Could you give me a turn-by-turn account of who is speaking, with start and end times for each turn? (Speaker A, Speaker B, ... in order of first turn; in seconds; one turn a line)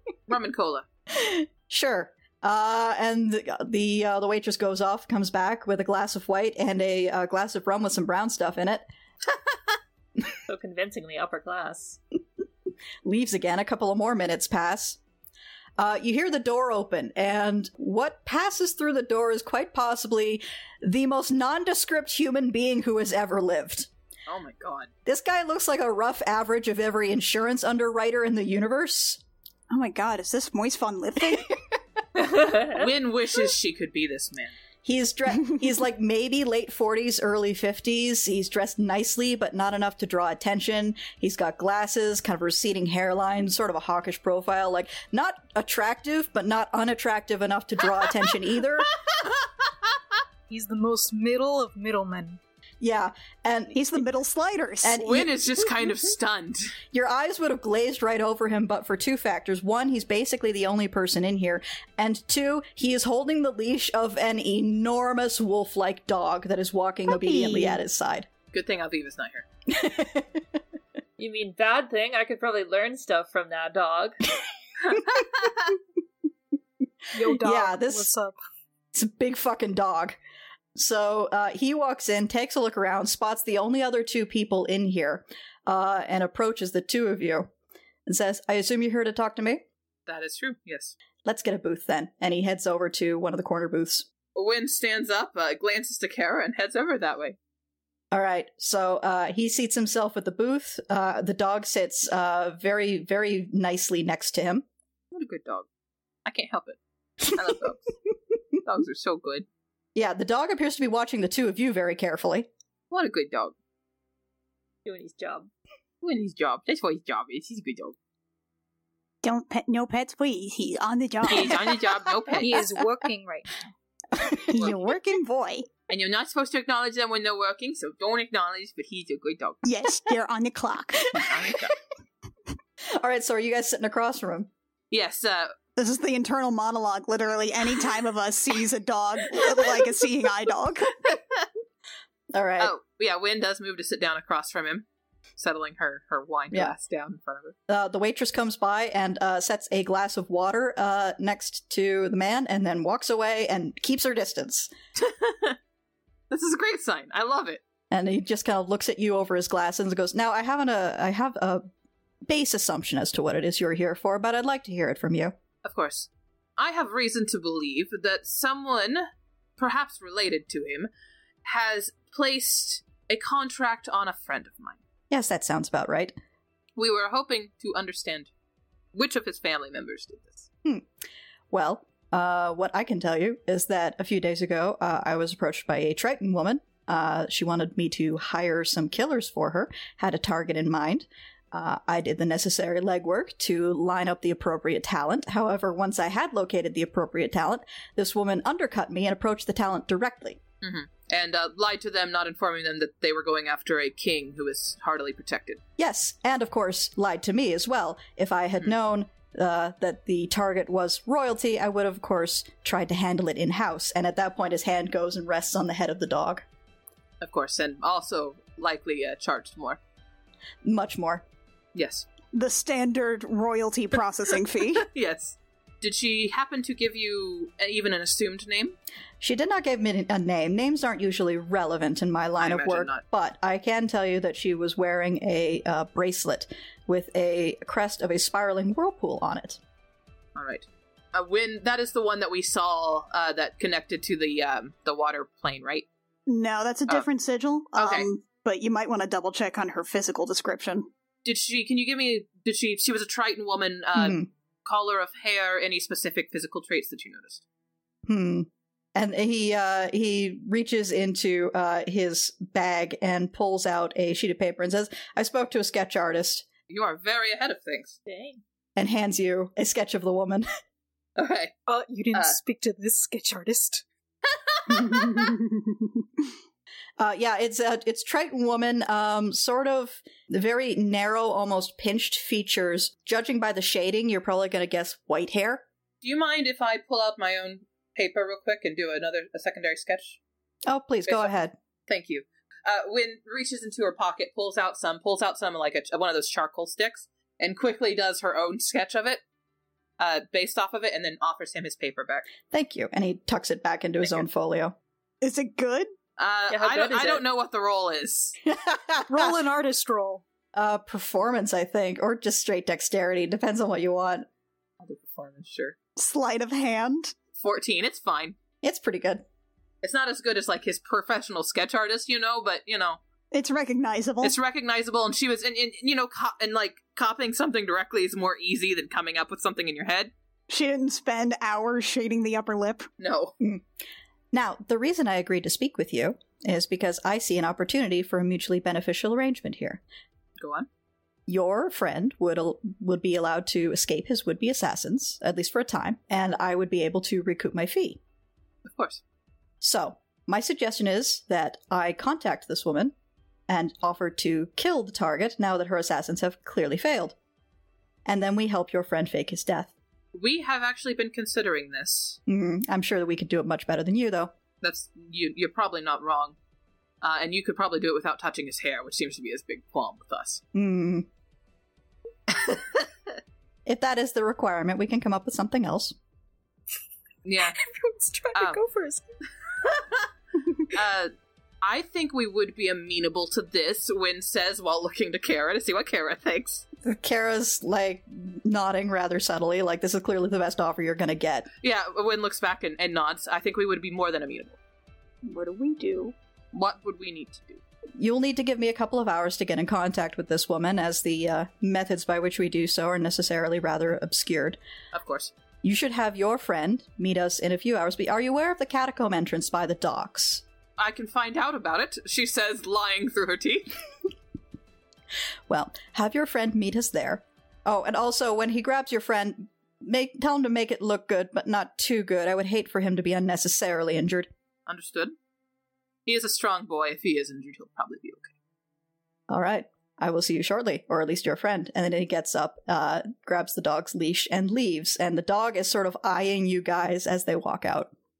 Speaker A: 0.3-0.8
Speaker B: 1.1-8.8
Speaker C: 10.5-12.0
Speaker B: 13.0-15.0
Speaker B: 15.8-23.9
Speaker A: 24.3-24.9
Speaker B: 25.1-29.2
Speaker D: 29.7-31.5
Speaker B: 31.3-31.5
Speaker C: 32.2-32.9
Speaker A: 32.7-34.6
Speaker B: 34.9-48.9
Speaker E: 50.5-52.4
Speaker B: 52.8-54.0
Speaker D: 53.8-55.0
Speaker B: 54.8-55.3
Speaker A: 55.0-56.7
Speaker B: 56.9-68.3
Speaker D: 67.1-67.8
Speaker A: 68.5-69.5
Speaker B: 69.7-70.6
Speaker C: 71.2-74.2
Speaker E: 77.1-78.3
Speaker B: 77.3-78.1
Speaker B: 78.9-80.2
Speaker B: 80.8-87.5
Speaker B: 88.1-89.7
Speaker A: 90.1-90.9
Speaker B: 91.2-94.1
Speaker A: 94.3-97.4
Speaker B: 98.1-104.7
Speaker A: 105.1-105.7
Speaker A: 106.2-107.9
Speaker A: 108.6-109.5
Speaker B: 110.0-112.5
Speaker A: 112.9-113.5
Speaker C: 114.8-115.5
Speaker A: 116.0-118.0
Speaker D: 119.2-121.8
Speaker A: 121.2-122.6
Speaker E: 122.4-123.6
Speaker B: 124.1-124.7
Speaker D: 124.5-125.7
Speaker A: 125.9-129.7
Speaker D: 129.7-131.1
Speaker A: 131.1-131.8
Speaker B: 131.2-131.5
Speaker B: 133.0-134.5
Speaker A: 134.9-135.5
Speaker D: 135.8-141.2
Speaker B: 142.3-142.7
Speaker A: 142.6-144.9
Speaker A: 145.4-147.6
Speaker B: 147.7-154.7
Speaker A: 155.0-155.6
Speaker A: 156.3-157.6
Speaker B: 157.9-161.7
Speaker B: 162.3-165.3
Speaker A: 165.7-169.1
Speaker A: 169.6-170.9
Speaker A: 171.4-174.8
Speaker B: 175.1-176.1
Speaker A: 176.8-178.3
Speaker A: 178.9-180.5
Speaker B: 181.5-200.4
Speaker A: 200.6-205.6
Speaker B: 205.8-216.4
Speaker A: 217.2-219.8
Speaker B: 220.6-221.2
Speaker A: 221.8-222.1
Speaker D: 222.3-224.9
Speaker A: 224.8-228.8
Speaker B: 229.2-239.6
Speaker A: 232.4-233.0
Speaker A: 240.3-245.9
Speaker D: 246.3-250.9
Speaker A: 247.8-248.1
Speaker A: 251.2-257.4
Speaker B: 253.9-254.3
Speaker B: 258.1-266.5
Speaker A: 266.7-268.0
Speaker C: 268.1-268.4
Speaker B: 268.8-270.5
Speaker A: 271.2-271.5
Speaker E: 271.7-273.9
Speaker A: 274.3-275.3
Speaker D: 274.7-276.0
Speaker B: 277.0-285.6
Speaker A: 286.0-290.2
Speaker B: 290.7-291.6
Speaker A: 291.1-291.3
Speaker A: 291.9-299.2
Speaker A: 300.0-302.2
Speaker B: 302.5-304.8
Speaker D: 305.2-305.9
Speaker A: 306.2-308.4
Speaker C: 306.5-307.2
Speaker B: 308.5-309.4
Speaker E: 309.1-310.2
Speaker B: 310.5-314.3
Speaker A: 314.8-315.8
Speaker D: 316.0-317.1
Speaker A: 317.4-318.4
Speaker B: 318.6-319.2
Speaker A: 319.8-323.0
Speaker D: 323.3-324.4
Speaker A: 324.2-330.1
Speaker D: 330.5-332.9
Speaker A: 333.0-333.3
Speaker B: 334.3-339.8
Speaker A: 340.4-340.7
Speaker B: 341.3-348.0
Speaker A: 348.7-349.0
Speaker B: 349.6-352.9
Speaker B: 353.5-357.2
Speaker B: 358.1-359.7
Speaker A: 360.1-362.2
Speaker B: 362.3-364.3
Speaker A: 364.6-366.4
Speaker A: 367.0-370.4
Speaker B: 370.5-371.1
Speaker B: 373.7-376.0
Speaker A: 377.2-377.6
Speaker E: 377.6-379.1
Speaker A: 378.4-378.6
Speaker A: 380.7-386.6
Speaker B: 386.8-391.5
Speaker A: 391.6-394.6
Speaker D: 395.2-396.1
Speaker A: 396.5-397.6
Speaker B: 398.0-404.6
Speaker A: 404.9-405.3
Speaker B: 405.6-410.4
Speaker A: 410.8-413.7
Speaker B: 415.5-424.3
Speaker A: 424.7-425.1
Speaker A: 426.1-428.3
Speaker B: 429.3-437.9